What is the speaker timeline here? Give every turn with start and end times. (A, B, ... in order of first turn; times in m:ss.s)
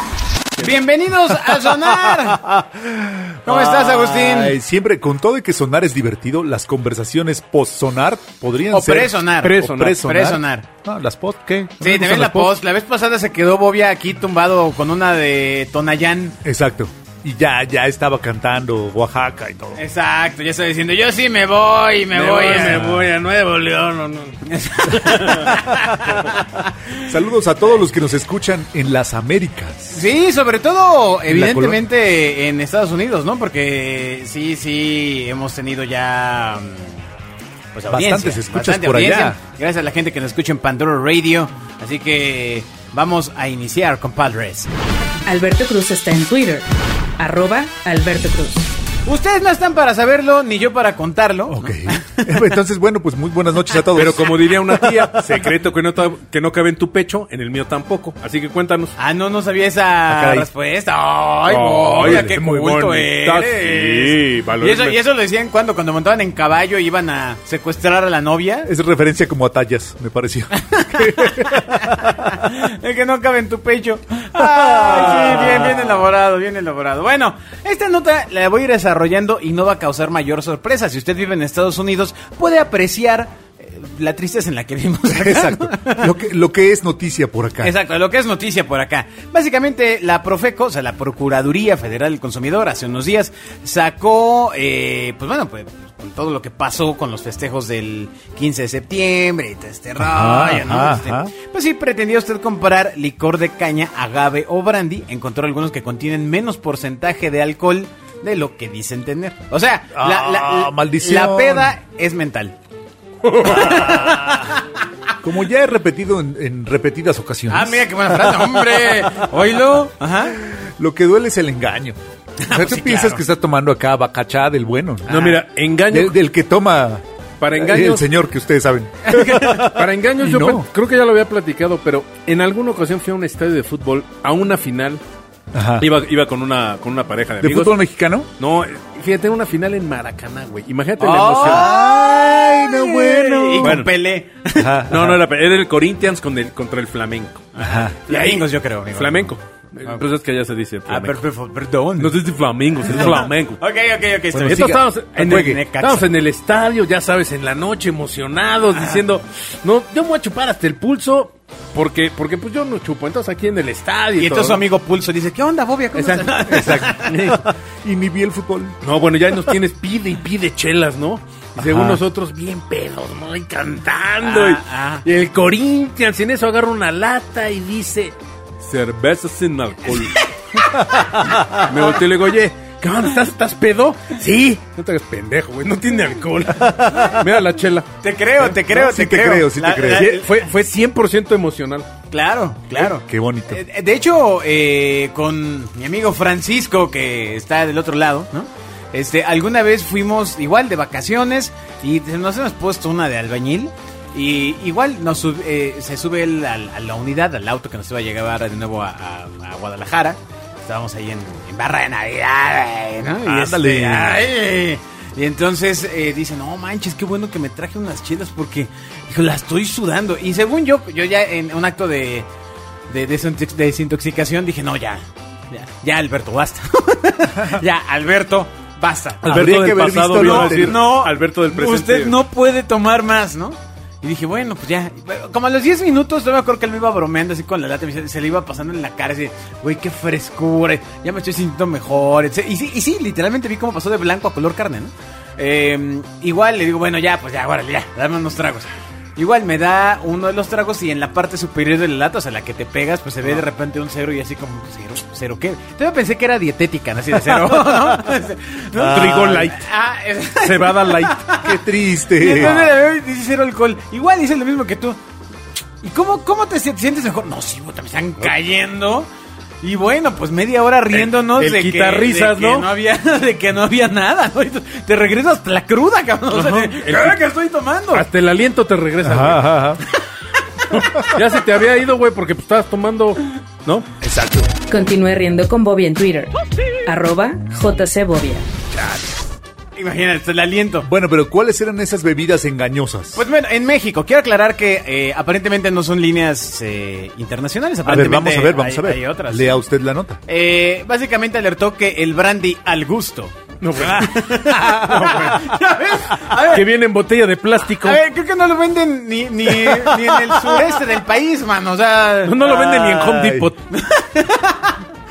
0:00.6-0:02.4 A
0:01.3-0:12.6 B
0:03.4-0:04.6 A
0:08.7-0:10.7 A
0:09.5-0:09.9 C
0:11.8-0:16.4 A
0:16.4-0:19.8 B
0:19.8-0:22.9 A
0:22.1-0:25.6 C
0:22.8-0:23.1 B
0:24.5-0:26.9 A
0:27.0-0:30.0 B
0:29.9-0:37.0 A
0:31.3-0:31.8 B
0:37.7-0:44.8 A
0:37.9-0:39.4 B
0:45.3-0:46.7 D
0:47.2-0:48.7 D
0:49.0-0:52.5 A
0:51.5-0:54.5 B
0:53.9-0:58.9 C
0:54.7-0:55.2 A
0:59.0-1:08.7 A
1:00.1-1:00.5 B
1:01.5-1:05.0 C
1:02.0-1:02.4 B
1:08.6-1:12.5 B
1:10.7-1:26.1 A
1:14.8-1:15.7 B
1:25.1-1:27.8 B
1:27.6-1:52.6 A
1:40.0-1:41.3 B
1:49.9-1:51.8 B
1:53.2-1:54.1 C
1:53.4-1:54.7 A
1:53.5-1:54.6 B
1:55.2-1:59.1 B
1:57.5-2:00.4 A
2:00.4-2:05.4 B
2:02.4-2:03.2 A
2:05.1-2:05.4 A
2:05.1-2:06.2 C
2:05.9-2:07.0 B
2:07.4-2:08.1 C
2:07.5-2:10.7 B
2:09.1-2:15.0 C
2:15.5-2:15.9 B
2:15.8-2:17.8 C
2:17.4-2:18.3 B
2:18.4-2:21.7 C
2:21.0-2:24.8 A
2:21.4-2:23.9 B
2:23.6-2:23.9 C
2:24.6-2:25.2 B
2:24.9-2:27.4 C
2:27.6-2:29.3 A
2:27.6-2:28.0 B
2:28.1-2:31.2 C
2:30.9-2:32.2 A
2:32.0-2:33.6 C
2:32.8-2:36.1 A
2:34.3-2:35.6 B
2:34.4-2:44.6 C
2:38.8-2:39.0 A
2:44.2-2:47.3 A
2:46.0-2:46.3 C
2:46.2-2:48.8 B
2:47.1-2:47.4 C
2:48.8-3:00.3 C
2:51.6-2:52.0 B
2:54.2-2:55.0 A
3:00.7-3:01.2 A
3:01.3-3:07.9 C
3:08.0-3:10.4 A
3:08.4-3:10.1 B
3:09.8-3:11.9 C
3:12.1-3:42.3 A
3:12.8-3:13.6 B
3:33.2-3:34.3 B
3:42.9-3:49.3 A
3:49.2-3:50.8 B
3:49.2-3:52.2 C
3:50.1-4:25.0 A
4:18.8-4:19.6 C
4:18.8-4:19.2 B
4:20.4-4:21.3 C
4:21.4-4:22.7 B
4:22.3-4:22.7 C
4:25.8-4:29.1 A
4:29.6-4:38.1 A
4:30.9-4:32.7 C
4:36.3-4:37.2 C
4:37.9-4:39.5 C
4:39.0-4:39.8 B
4:40.7-4:43.9 C
4:44.0-4:44.5 B
4:44.7-4:46.3 D
4:46.9-4:48.5 D
4:49.8-4:50.9 A
4:50.8-4:53.2 B
4:53.2-4:59.6 A
4:57.8-5:00.2 B
5:00.3-5:06.6 A
5:03.6-5:05.6 C
5:06.3-5:08.0 C
5:07.8-5:13.1 A
5:12.2-5:13.6 C
5:13.0-5:13.5 B
5:13.7-5:14.8 A